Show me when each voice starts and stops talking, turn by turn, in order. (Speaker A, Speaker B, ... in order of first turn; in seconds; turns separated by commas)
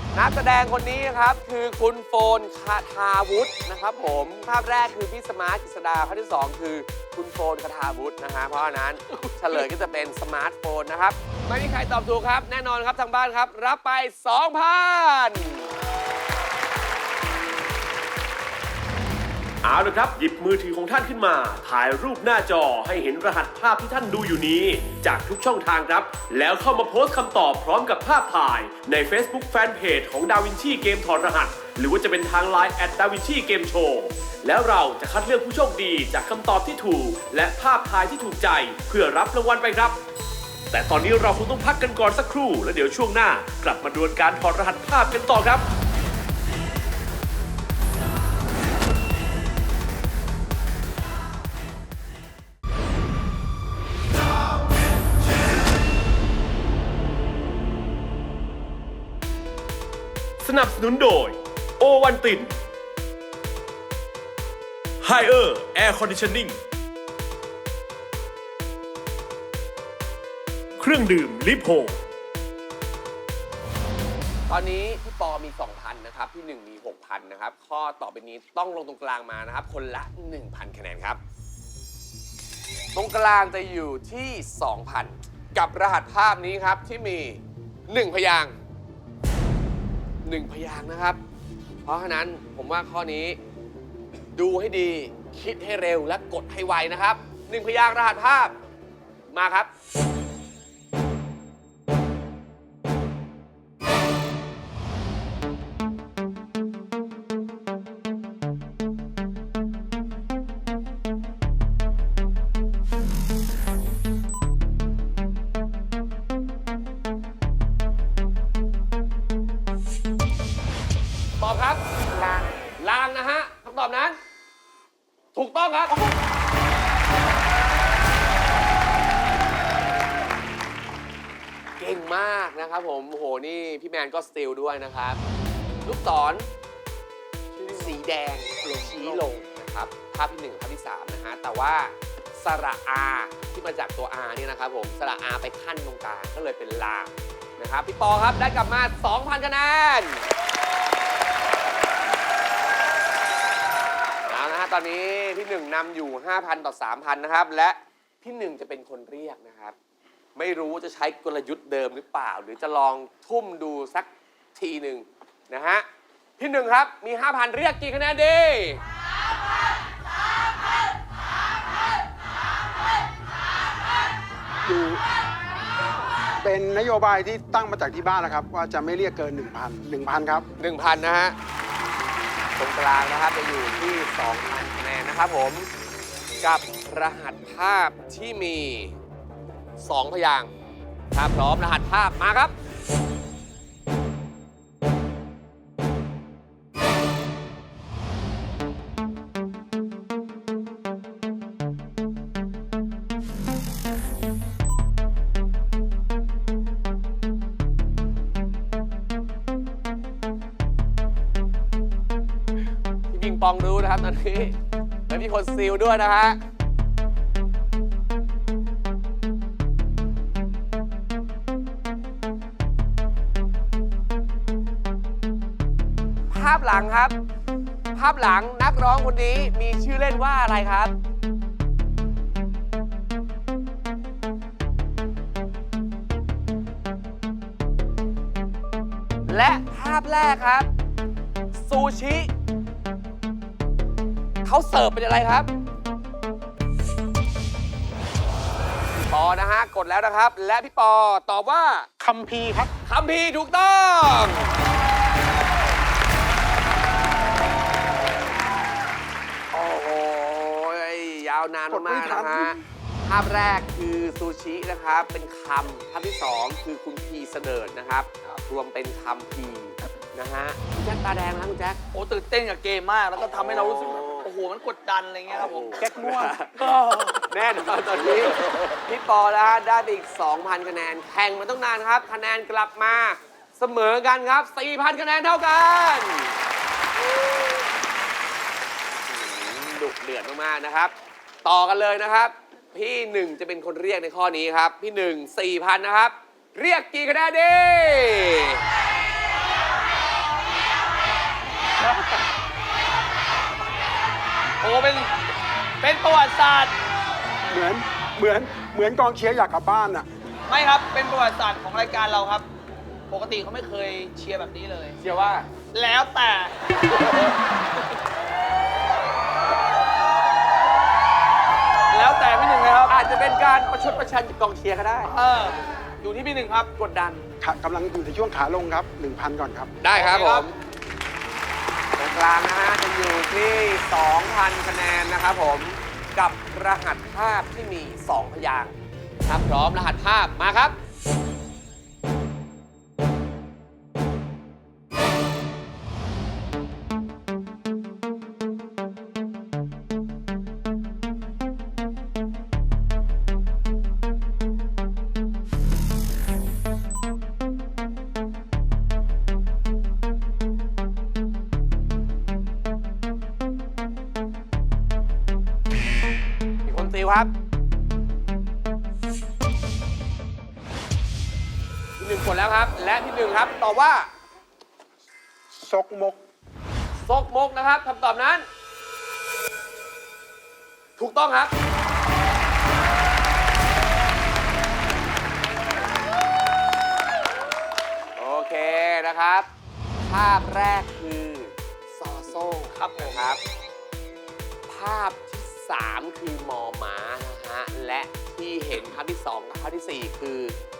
Speaker A: 0.1-15.7, Speaker B: 9.1-9.6, Speaker C: 19.6-40.0, Speaker C: 40.7-45.6, Speaker C: 60.4-62.5, Speaker C: 65.0-66.6, Speaker C: 70.8-72.0, Speaker A: 74.5-81.2, Speaker A: 82.9-88.5, Speaker A: 90.2-91.2, Speaker A: 91.8-93.4, Speaker A: 94.3-98.5, Speaker A: 99.3-99.7, Speaker A: 121.4-121.8, Speaker D: 122.1-122.5, Speaker A: 122.8-124.2, Speaker A: 125.3-126.0, Speaker A: 131.8-135.2, Speaker A: 135.8-136.5, Speaker D: 137.5-138.0, Speaker A: 137.7-150.3, Speaker D: 138.5-139.3, Speaker A: 154.3-159.7, Speaker A: 160.3-165.8, Speaker A: 166.4-168.8, Speaker E: 174.6-175.0, Speaker E: 176.4-180.4, Speaker A: 180.6-181.3, Speaker A: 182.6-185.7, Speaker A: 186.4-189.0, Speaker A: 189.8-190.5, Speaker A: 191.1-192.5, Speaker A: 213.1-214.6, Speaker A: 215.1-216.4, Speaker A: 226.3-227.1, Speaker A: 227.9-230.9, Speaker A: 239.3-240.7, Speaker A: 241.6-242.3, Speaker A: 244.4-245.5, Speaker A: 248.9-251.9, Speaker D: 252.0-252.7, Speaker A: 252.9-254.6, Speaker A: 259.5-271.8, Speaker E: 261.7-262.6, Speaker B: 271.9-275.8, Speaker A: 273.5-274.2, Speaker A: 275.4-286.4, Speaker D: 275.8-276.4, Speaker A: 289.0-290.9, Speaker A: 291.4-298.6, Speaker B: 304.6-305.1, Speaker B: 305.8-306.7, Speaker E: 307.5-310.1, Speaker B: 310.5-312.4, Speaker B: 313.1-314.9, Speaker A: 315.0-315.5, Speaker B: 315.7-316.5, Speaker B: 321.9-322.9, Speaker A: 322.9-325.1, Speaker B: 325.1-326.7, Speaker A: 326.8-327.2, Speaker E: 327.4-329.8, Speaker A: 329.8-330.5, Speaker B: 329.9-330.5, Speaker A: 332.0-338.7, Speaker A: 339.2-340.8, Speaker A: 366.6-367.3, Speaker A: 372.0-374.1, Speaker D: 375.6-376.1, Speaker E: 375.7-376.1, Speaker A: 377.0-378.4, Speaker A: 381.0-381.5, Speaker A: 388.2-389.5, Speaker A: 390.0-393.4, Speaker B: 392.7-393.2, Speaker A: 394.7-400.6